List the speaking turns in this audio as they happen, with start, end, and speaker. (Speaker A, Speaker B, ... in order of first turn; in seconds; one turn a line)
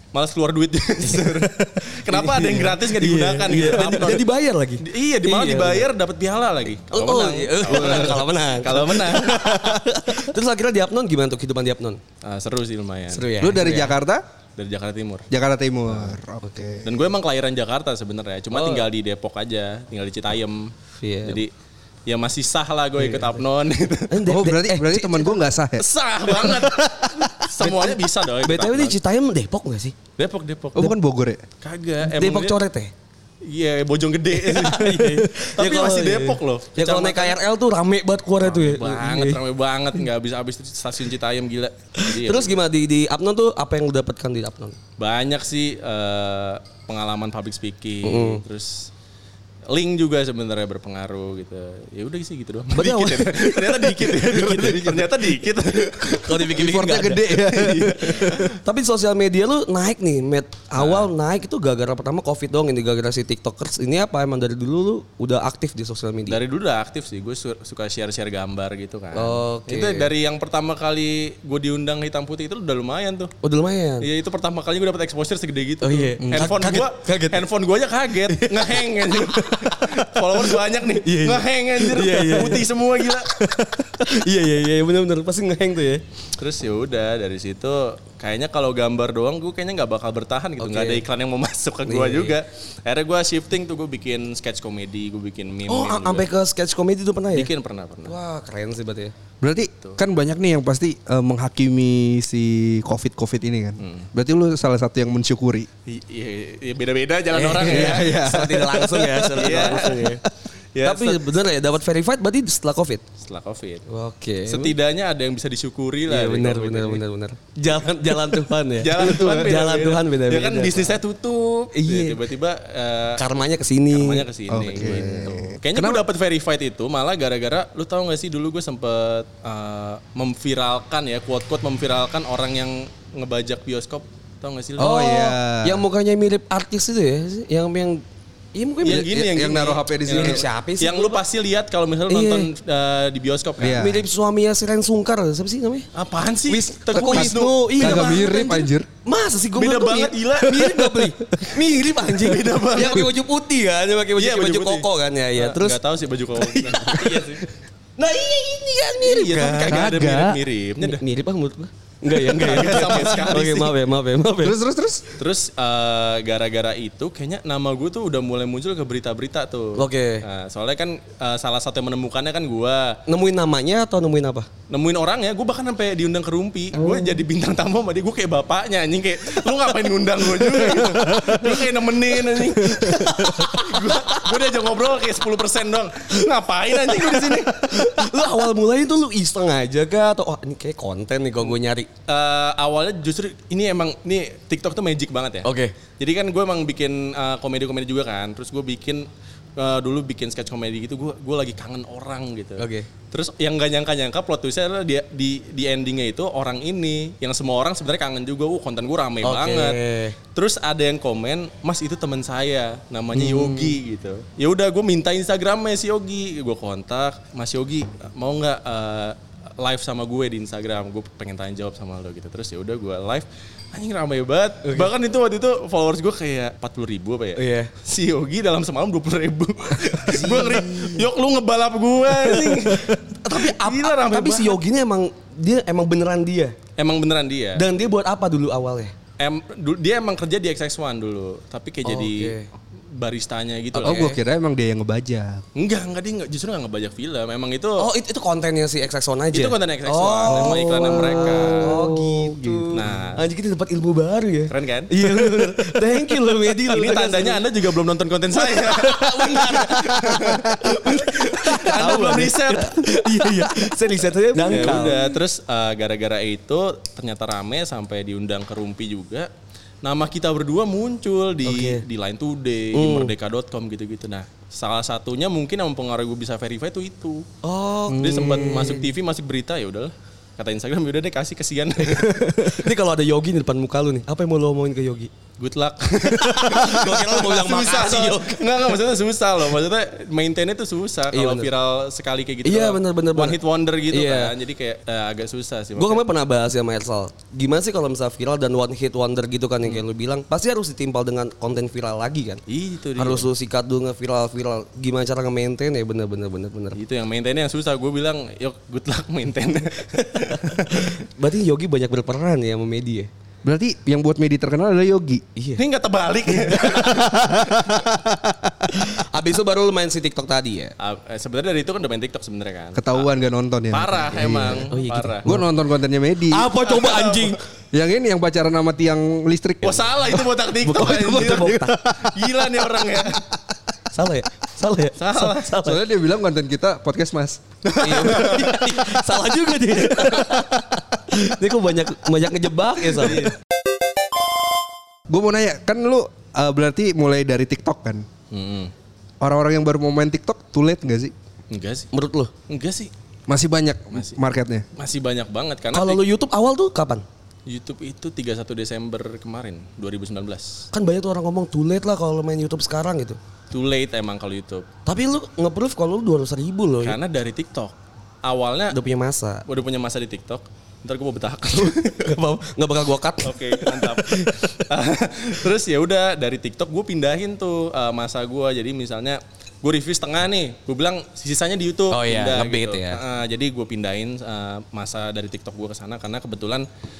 Speaker A: 0.1-4.3
Speaker B: 1.0-5.9
Speaker A: 4.8-9.8
Speaker B: 6.9-12.0
Speaker A: 12.2-13.8
Speaker B: 13.1-13.9
Speaker C: 13.4-14.2
Speaker A: 14.6-15.3
Speaker C: 15.3-16.9
Speaker B: 16.4-16.7
Speaker A: 16.8-20.7
Speaker B: 18.5-18.9
Speaker B: 21.0-21.4
Speaker A: 21.2-21.5
Speaker A: 22.1-24.2
Speaker B: 23.0-23.4
Speaker B: 24.1-25.4
Speaker C: 24.2-25.9
Speaker A: 25.8-29.0
Speaker B: 26.6-29.9
Speaker A: 30.2-30.9
Speaker C: 30.8-31.4
Speaker A: 31.6-32.6
Speaker B: 32.0-32.9
Speaker A: 33.4-37.4
Speaker B: 34.3-39.4
Speaker A: 38.4-42.6
Speaker B: 42.0-44.8
Speaker A: 45.0-48.9
Speaker B: 48.0-48.4
Speaker A: 49.7-56.6
Speaker B: 52.7-57.5
Speaker C: 56.5-58.5
Speaker A: 57.5-58.4
Speaker B: 58.6-66.4
Speaker A: 60.8-61.1
Speaker A: 66.3-73.3
Speaker B: 69.1-70.1
Speaker B: 73.4-74.1
Speaker A: 74.0-83.4
Speaker B: 75.8-77.5
Speaker B: 78.2-86.0
Speaker A: 86.4-96.3
Speaker B: 90.6-91.0
Speaker B: 91.8-92.4
Speaker B: 95.7-97.5
Speaker A: 97.3-98.2
Speaker B: 98.0-99.1
Speaker C: 99.4-105.7
Speaker A: 103.8-104.1
Speaker A: 105.9-110.2
Speaker B: 107.3-110.2
Speaker C: 107.6-109.3
Speaker A: 110.8-111.2
Speaker B: 110.8-113.0
Speaker A: 113.2-113.8
Speaker B: 113.9-114.8
Speaker A: 114.5-117.0
Speaker B: 116.1-121.0
Speaker A: 118.2-123.2
Speaker B: 121.7-122.2
Speaker B: 123.2-125.3
Speaker A: 123.9-135.0
Speaker C: 124.5-126.0
Speaker B: 134.8-138.0
Speaker C: 134.8-135.8
Speaker B: 138.6-139.2
Speaker A: 138.8-143.9
Speaker C: 138.9-140.5
Speaker B: 140.1-141.2
Speaker B: 142.1-142.5
Speaker C: 143.6-144.0
Speaker B: 143.7-145.9
Speaker A: 145.9-148.6
Speaker B: 146.5-155.8
Speaker C: 146.9-148.9
Speaker A: 149.6-153.1
Speaker A: 154.2-157.4
Speaker B: 156.4-157.5
Speaker B: 158.0-159.9
Speaker A: 159.0-161.0
Speaker C: 159.7-160.4
Speaker B: 160.8-164.6
Speaker A: 162.1-163.8
Speaker C: 164.4-165.1
Speaker A: 165.2-173.0
Speaker B: 169.8-170.2
Speaker B: 173.1-174.5
Speaker A: 174.7-188.0
Speaker B: 176.8-177.2
Speaker B: 180.3-181.7
Speaker B: 182.2-184.3
Speaker B: 186.8-191.9
Speaker A: 192.1-209.8
Speaker B: 195.4-195.7
Speaker B: 202.6-202.9
Speaker B: 209.2-210.2
Speaker A: 210.3-234.6
Speaker B: 224.6-224.9
Speaker B: 227.4-227.7
Speaker B: 230.0-231.1
Speaker B: 232.1-236.6
Speaker A: 236.8-237.7
Speaker B: 237.6-238.9
Speaker A: 239.2-242.4
Speaker B: 241.8-242.5
Speaker A: 242.9-244.1
Speaker B: 243.8-244.2
Speaker C: 243.8-245.4
Speaker A: 245.6-247.9
Speaker B: 247.8-257.4
Speaker A: 249.3-251.8
Speaker C: 250.3-253.0
Speaker A: 252.7-253.2
Speaker A: 254.5-269.3
Speaker B: 258.3-265.0
Speaker A: 269.8-277.3
Speaker B: 271.4-271.8
Speaker B: 272.7-273.1
Speaker B: 277.4-278.9
Speaker A: 277.9-282.5
Speaker B: 282.0-285.1
Speaker A: 285.4-296.0
Speaker B: 286.1-288.6
Speaker B: 291.1-291.5
Speaker B: 292.4-293.4
Speaker B: 293.9-294.3
Speaker B: 295.8-302.4
Speaker A: 302.5-303.3
Speaker B: 303.0-306.8
Speaker A: 306.8-311.0
Speaker B: 310.5-313.1
Speaker C: 313.4-315.2
Speaker B: 315.4-315.6
Speaker A: 315.6-317.8
Speaker B: 316.5-317.0
Speaker C: 316.9-318.7
Speaker B: 318.7-320.7
Speaker A: 320.8-323.1
Speaker C: 322.8-324.7
Speaker A: 323.7-325.3
Speaker B: 324.7-325.5
Speaker C: 325.2-326.5
Speaker B: 326.3-327.4
Speaker A: 326.5-327.4
Speaker C: 327.7-330.1
Speaker A: 329.6-333.2
Speaker B: 330.6-332.1
Speaker B: 333.9-335.8
Speaker A: 335.0-335.6
Speaker C: 335.6-337.4
Speaker A: 337.6-339.0
Speaker B: 337.8-343.3
Speaker A: 339.9-340.3
Speaker A: 343.0-343.4
Speaker C: 345.1-348.1
Speaker A: 348.3-348.7
Speaker C: 349.2-351.1
Speaker A: 351.5-351.9
Speaker B: 351.9-352.3
Speaker A: 352.5-352.9
Speaker C: 353.3-354.6
Speaker A: 354.8-356.0
Speaker B: 355.7-357.1
Speaker A: 357.5-360.7
Speaker B: 360.7-363.2
Speaker A: 363.5-364.7
Speaker B: 364.9-367.0
Speaker A: 366.8-368.8
Speaker B: 368.7-369.4
Speaker A: 369.5-372.2
Speaker B: 371.7-374.6
Speaker A: 373.2-386.7
Speaker B: 381.9-383.0